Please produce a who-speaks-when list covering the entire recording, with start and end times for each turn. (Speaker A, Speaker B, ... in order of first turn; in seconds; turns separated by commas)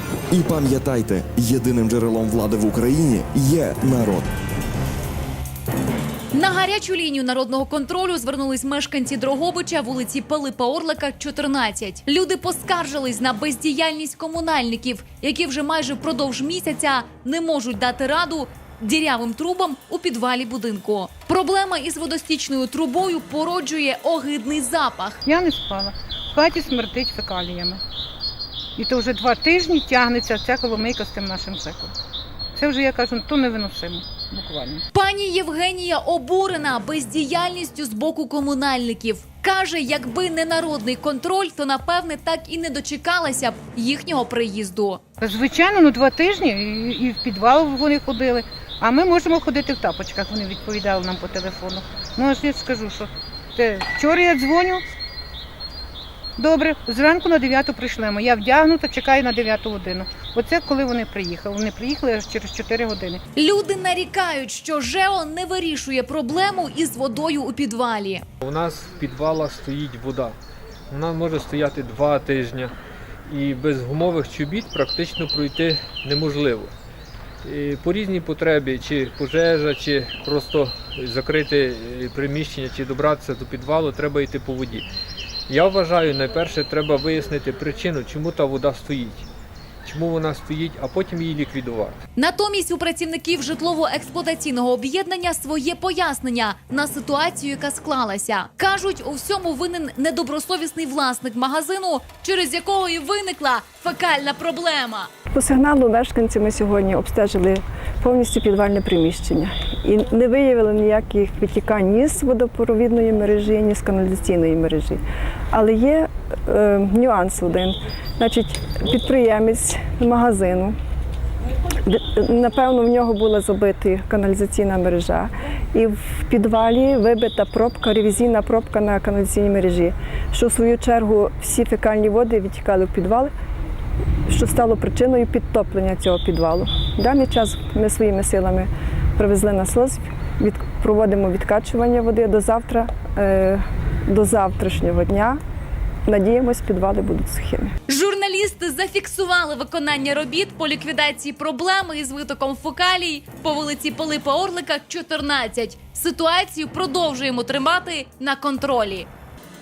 Speaker A: 0.3-4.3, Speaker B: 6.3-25.2, Speaker C: 25.3-27.8, Speaker C: 28.8-31.9, Speaker C: 32.6-34.8, Speaker B: 34.9-45.0, Speaker C: 45.2-54.8, Speaker C: 56.4-63.2, Speaker B: 63.4-68.3, Speaker D: 68.4-70.4, Speaker D: 70.9-72.7, Speaker D: 73.3-76.7, Speaker D: 77.4-84.9, Speaker D: 85.5-89.3, Speaker D: 89.8-92.0, Speaker B: 92.2-105.1, Speaker E: 105.3-115.0, Speaker E: 115.5-120.8, Speaker E: 121.8-133.3, Speaker E: 134.3-145.4, Speaker E: 146.1-147.7, Speaker B: 147.9-159.1